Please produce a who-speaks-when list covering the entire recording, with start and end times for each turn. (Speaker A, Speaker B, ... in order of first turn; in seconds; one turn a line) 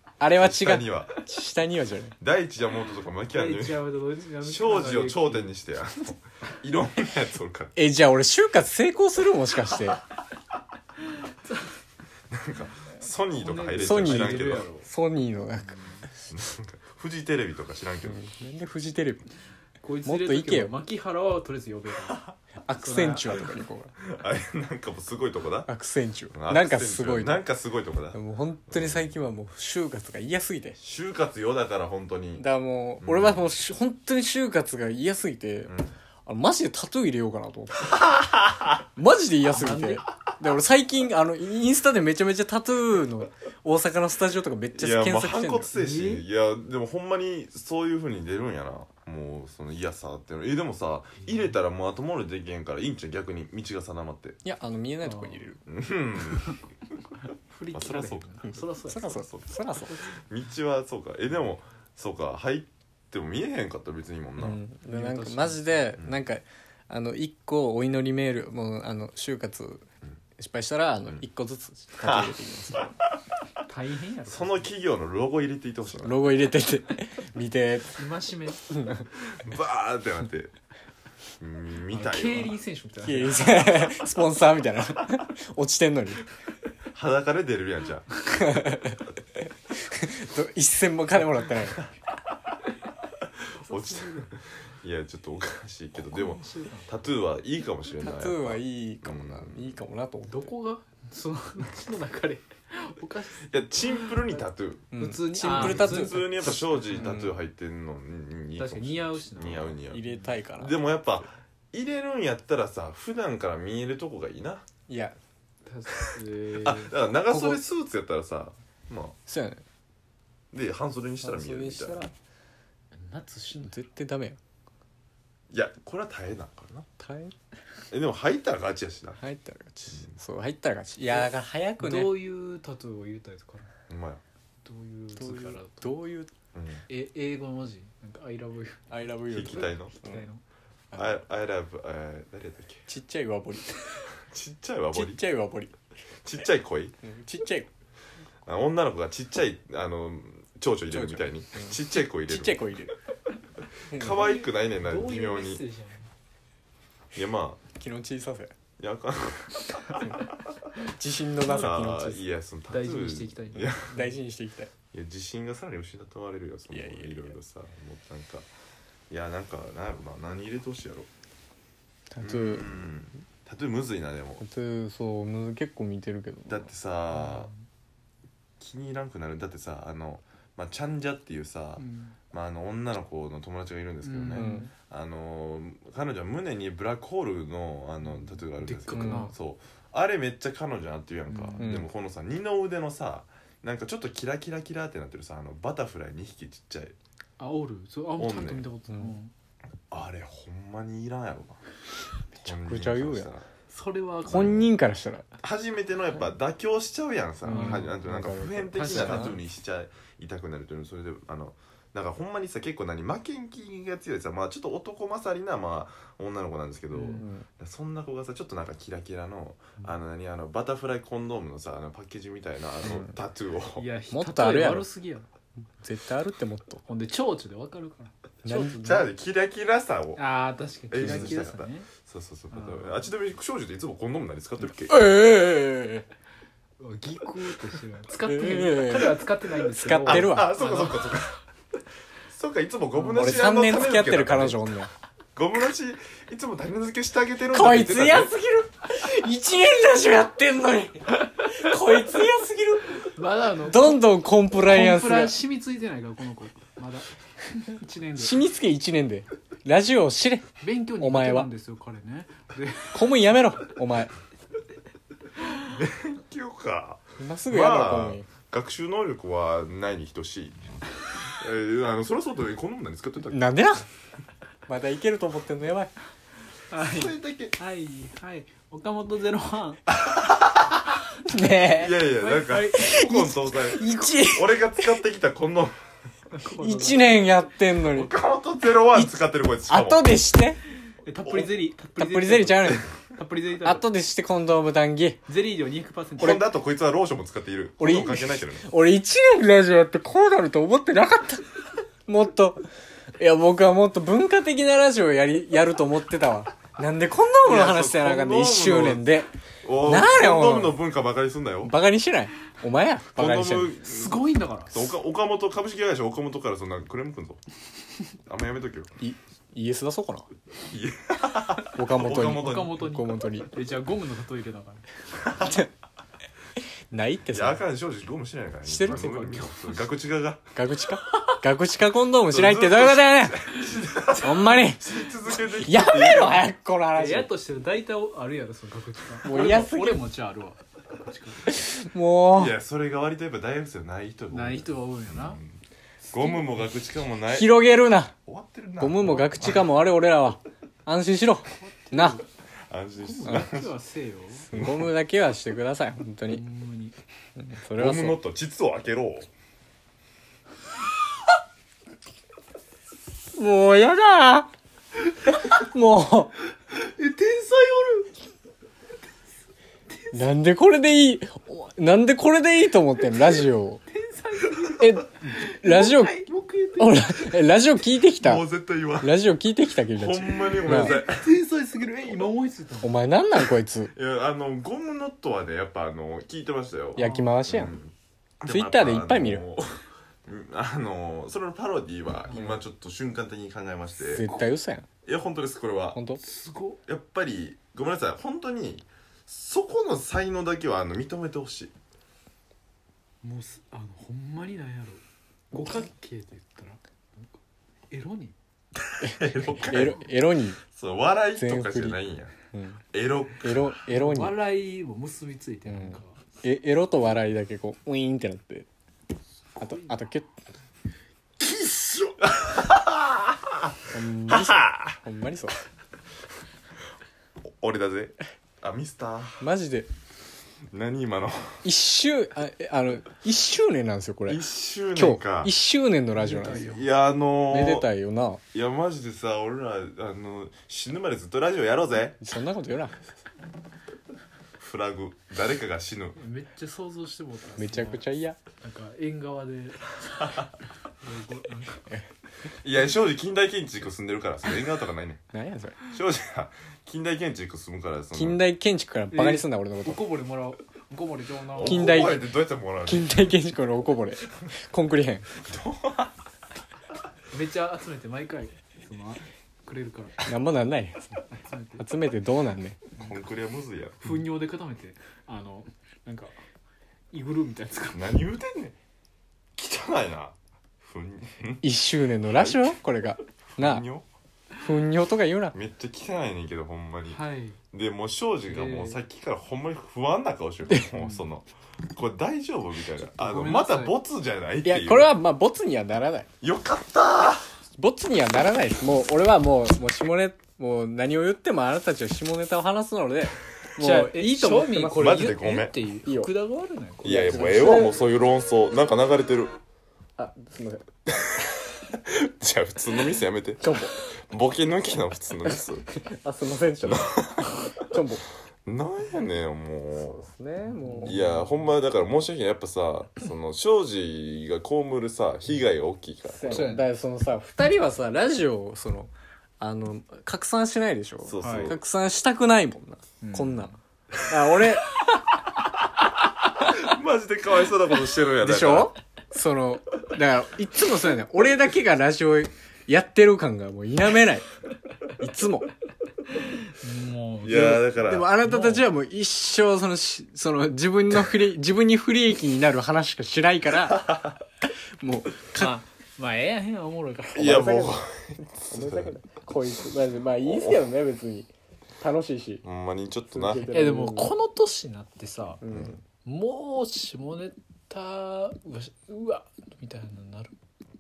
Speaker A: 0.2-2.2
Speaker B: 0.4-1.2
Speaker B: 2.2-3.9
Speaker C: 3.3-5.5
Speaker B: 4.4-7.8
Speaker A: 7.8-10.0
Speaker C: 11.1-11.7
Speaker B: 12.3-14.7
Speaker C: 13.3-14.9
Speaker A: 13.8-15.8
Speaker C: 15.7-16.1
Speaker B: 16.3-18.2
Speaker A: 18.1-19.3
Speaker C: 19.8-23.5
Speaker A: 20.1-20.8
Speaker A: 22.7-23.9
Speaker B: 24.0-25.7
Speaker A: 25.7-27.4
Speaker B: 26.3-29.1
Speaker A: 28.1-30.8
Speaker B: 30.8-32.5
Speaker A: 32.4-35.7
Speaker B: 33.0-33.4
Speaker B: 35.7-35.9
Speaker A: 36.3-38.0
Speaker B: 38.0-38.8
Speaker A: 39.0-45.8
Speaker C: 39.5-40.0
Speaker B: 44.8-54.4
Speaker C: 45.8-46.2
Speaker A: 54.4-55.6
Speaker C: 55.0-55.4
Speaker B: 55.7-56.5
Speaker C: 57.5-59.2
Speaker B: 57.7-64.6
Speaker A: 58.9-60.0
Speaker C: 59.8-60.1
Speaker A: 64.4-69.9
Speaker C: 64.9-65.8
Speaker A: 70.4-72.9
Speaker B: 72.0-72.9
Speaker C: 73.7-74.7
Speaker B: 74.3-76.3
Speaker A: 75.9-78.0
Speaker C: 78.0-78.7
Speaker A: 78.7-79.1
Speaker B: 79.3-80.5
Speaker B: 81.4-82.5
Speaker C: 81.9-84.0
Speaker A: 83.0-86.2
Speaker B: 86.9-88.2
Speaker A: 88.3-91.8
Speaker C: 93.6-94.3
Speaker B: 93.7-99.8
Speaker C: 96.0-96.9
Speaker A: 98.0-100.5
Speaker C: 100.3-104.4
Speaker B: 103.5-114.7
Speaker A: 104.9-107.4
Speaker C: 105.0-107.2
Speaker C: 108.6-110.3
Speaker A: 109.9-110.9
Speaker A: 114.9-115.2
Speaker C: 115.7-117.0
Speaker B: 116.6-119.2
Speaker A: 117.3-117.6
Speaker A: 119.3-119.6
Speaker B: 120.5-122.1
Speaker A: 121.2-122.1
Speaker C: 122.9-123.8
Speaker A: 123.7-124.4
Speaker B: 125.5-126.9
Speaker A: 127.0-127.3
Speaker B: 127.9-129.2
Speaker A: 129.2-132.2
Speaker C: 131.8-133.7
Speaker B: 133.9-134.2
Speaker C: 134.6-135.9
Speaker A: 135.2-136.3
Speaker B: 136.6-136.9
Speaker C: 136.9-138.9
Speaker A: 138.9-140.2
Speaker B: 139.3-139.9
Speaker C: 139.5-140.4
Speaker B: 140.9-142.9
Speaker A: 142.9-144.1
Speaker B: 144.2-145.2
Speaker A: 144.9-145.7
Speaker B: 146.2-147.0
Speaker A: 147.0-147.7
Speaker B: 148.5-152.7
Speaker A: 150.9-152.9
Speaker B: 153.9-155.6
Speaker A: 153.9-154.3
Speaker C: 154.0-156.1
Speaker B: 157.1-157.6
Speaker A: 157.8-158.6
Speaker B: 158.8-160.3
Speaker A: 160.8-162.2
Speaker B: 161.4-164.0
Speaker C: 162.7-164.1
Speaker A: 163.9-164.7
Speaker B: 164.9-168.5
Speaker A: 166.7-167.3
Speaker B: 169.1-171.1
Speaker A: 172.1-172.7
Speaker B: 172.2-174.4
Speaker A: 174.4-176.7
Speaker B: 176.5-177.5
Speaker C: 177.1-177.6
Speaker B: 178.6-196.9
Speaker C: 181.8-182.2
Speaker C: 184.0-184.7
Speaker A: 184.3-184.7
Speaker C: 188.6-189.3
Speaker A: 188.9-189.3
Speaker C: 191.3-191.7
Speaker A: 191.6-191.9
Speaker C: 197.4-199.3
Speaker B: 198.2-198.7
Speaker B: 199.9-201.6
Speaker A: 202.4-203.3
Speaker B: 202.4-203.5
Speaker C: 203.7-204.6
Speaker A: 204.3-205.3
Speaker B: 204.3-204.7
Speaker B: 205.4-223.9
Speaker A: 207.4-209.4
Speaker C: 207.5-207.9
Speaker C: 208.7-209.4
Speaker C: 216.9-217.2
Speaker A: 217.2-217.4
Speaker A: 222.8-223.1
Speaker C: 223.8-225.3
Speaker A: 224.1-224.9
Speaker A: 225.8-226.8
Speaker C: 226.9-229.1
Speaker A: 228.4-228.8
Speaker B: 228.5-230.2
Speaker C: 230.2-231.9
Speaker B: 230.9-235.1
Speaker A: 231.0-231.3
Speaker C: 232.5-233.1
Speaker A: 234.9-236.1
Speaker C: 236.8-241.0
Speaker A: 238.2-240.5
Speaker B: 240.0-241.4
Speaker B: 242.3-244.6
Speaker C: 243.0-243.2
Speaker A: 243.1-244.9
Speaker B: 245.4-248.3
Speaker A: 247.5-253.1
Speaker C: 253.0-254.1
Speaker A: 253.6-255.4
Speaker C: 254.6-258.5
Speaker A: 258.2-261.5
Speaker C: 260.6-263.1
Speaker A: 262.9-264.1
Speaker B: 265.5-270.6
Speaker A: 267.2-268.3
Speaker B: 271.3-273.4
Speaker A: 273.3-273.9
Speaker A: 274.7-275.9
Speaker C: 276.7-279.8
Speaker B: 276.8-277.6
Speaker B: 279.9-281.0
Speaker A: 281.2-282.0
Speaker B: 281.7-285.8
Speaker C: 282.2-283.0
Speaker A: 282.8-285.0
Speaker C: 286.3-287.1
Speaker A: 286.5-288.1
Speaker B: 287.8-290.1
Speaker A: 289.7-290.6
Speaker C: 290.9-293.9
Speaker A: 292.0-292.9
Speaker A: 293.6-295.2
Speaker C: 295.3-296.5
Speaker B: 296.2-298.7
Speaker A: 297.8-302.7
Speaker A: 303.2-309.3
Speaker B: 307.4-309.1
Speaker B: 309.6-311.7
Speaker A: 309.8-310.8
Speaker A: 311.6-313.7
Speaker B: 313.1-317.4
Speaker C: 313.8-314.9
Speaker B: 318.3-318.9
Speaker A: 319.0-320.3
Speaker B: 320.7-322.8
Speaker A: 321.7-323.5
Speaker C: 322.0-324.9
Speaker B: 325.2-325.6
Speaker A: 325.4-325.7
Speaker A: 326.9-327.6
Speaker B: 327.3-330.5
Speaker A: 328.6-329.5
Speaker C: 328.9-329.8
Speaker A: 330.6-333.5
Speaker B: 332.3-336.5
Speaker C: 333.8-334.2
Speaker A: 334.2-337.3
Speaker C: 336.9-341.6
Speaker A: 339.2-340.0
Speaker A: 341.5-342.6
Speaker B: 342.3-345.6
Speaker C: 344.3-345.4
Speaker C: 346.1-346.7
Speaker B: 346.1-347.6
Speaker A: 347.3-348.1
Speaker B: 348.3-349.7
Speaker A: 348.8-352.2
Speaker C: 351.6-352.2
Speaker B: 352.7-353.7
Speaker C: 353.0-354.5
Speaker A: 354.5-356.4
Speaker B: 354.5-354.9
Speaker C: 356.3-357.0
Speaker A: 357.4-358.2
Speaker B: 357.8-359.3
Speaker A: 363.3-364.5
Speaker A: 365.3-366.4
Speaker C: 366.7-368.1
Speaker C: 369.9-370.2
Speaker A: 370.1-373.8
Speaker C: 373.9-377.1
Speaker A: 374.8-376.3
Speaker A: 376.8-378.4
Speaker B: 378.2-379.2
Speaker A: 379.0-381.0
Speaker B: 379.9-381.3
Speaker C: 380.6-382.9
Speaker A: 382.8-383.9
Speaker B: 383.9-394.2
Speaker A: 387.0-387.8
Speaker C: 387.0-387.4
Speaker A: 388.5-389.4
Speaker A: 394.0-394.9
Speaker B: 395.1-396.0
Speaker A: 395.9-396.2
Speaker C: 396.2-396.8
Speaker B: 396.9-401.7
Speaker C: 403.2-407.4
Speaker C: 407.9-408.4
Speaker B: 408.9-410.1
Speaker A: 409.0-410.6
Speaker B: 410.7-412.3
Speaker A: 411.4-412.0
Speaker A: 412.5-412.8
Speaker B: 412.9-413.7
Speaker A: 413.4-414.4
Speaker C: 413.9-416.2
Speaker A: 415.7-418.7
Speaker C: 419.6-420.0
Speaker A: 419.6-420.3
Speaker C: 421.5-422.1
Speaker B: 422.2-423.7
Speaker A: 423.9-425.6
Speaker B: 424.3-425.0
Speaker B: 427.4-429.4
Speaker A: 429.4-429.9
Speaker B: 430.7-431.6
Speaker A: 431.6-434.4
Speaker B: 434.3-435.5
Speaker A: 434.9-436.7
Speaker C: 436.2-436.9
Speaker B: 436.4-437.9
Speaker A: 437.5-438.4
Speaker B: 438.5-442.2
Speaker A: 442.2-443.0
Speaker B: 444.6-446.2
Speaker C: 446.2-448.1
Speaker A: 447.6-448.4
Speaker C: 448.6-450.5
Speaker C: 451.0-451.9
Speaker B: 452.6-455.2
Speaker A: 455.3-455.8
Speaker B: 455.8-458.4
Speaker A: 458.1-460.0
Speaker C: 459.1-462.1
Speaker B: 461.6-463.3
Speaker A: 461.6-462.3
Speaker A: 462.9-465.3
Speaker B: 465.4-466.1
Speaker C: 467.3-470.2
Speaker A: 470.2-471.2
Speaker C: 471.3-471.9
Speaker A: 471.8-472.9
Speaker B: 473.0-474.2
Speaker C: 474.0-476.4
Speaker C: 477.1-478.1
Speaker B: 477.9-478.8
Speaker B: 479.6-481.6
Speaker A: 481.6-483.9
Speaker B: 482.2-482.8
Speaker B: 483.4-484.1
Speaker A: 484.6-485.6
Speaker B: 485.5-495.1
Speaker C: 487.1-487.6
Speaker C: 488.5-489.0
Speaker C: 490.9-491.2
Speaker C: 493.1-494.0
Speaker A: 494.6-496.3
Speaker B: 496.4-497.5
Speaker A: 497.8-505.3
Speaker C: 503.8-507.9
Speaker B: 504.9-505.8
Speaker A: 506.1-506.3
Speaker A: 507.0-508.0
Speaker B: 507.0-509.6
Speaker A: 510.2-510.9
Speaker B: 511.1-515.9
Speaker A: 513.6-514.0
Speaker A: 515.5-517.1
Speaker B: 516.8-518.0
Speaker A: 517.8-518.2
Speaker B: 518.7-520.2
Speaker A: 520.0-521.3
Speaker C: 520.7-521.4
Speaker B: 521.0-526.7
Speaker A: 526.3-533.7
Speaker C: 526.5-526.9
Speaker B: 531.2-531.8
Speaker C: 531.4-531.8
Speaker C: 533.2-533.8
Speaker A: 534.2-535.0
Speaker B: 536.5-538.9
Speaker A: 538.4-544.5
Speaker A: 545.2-545.7
Speaker C: 546.4-547.8
Speaker B: 547.4-548.3
Speaker A: 547.5-554.1
Speaker C: 548.4-548.9
Speaker B: 553.9-554.4
Speaker A: 555.0-555.8
Speaker C: 555.5-557.7
Speaker B: 557.4-559.2
Speaker A: 557.4-558.0
Speaker A: 558.7-561.5
Speaker B: 560.4-560.8
Speaker A: 562.0-562.6
Speaker B: 562.6-563.7
Speaker A: 563.3-564.3
Speaker C: 563.7-565.6
Speaker A: 565.6-566.0
Speaker B: 565.7-566.0
Speaker C: 566.2-570.5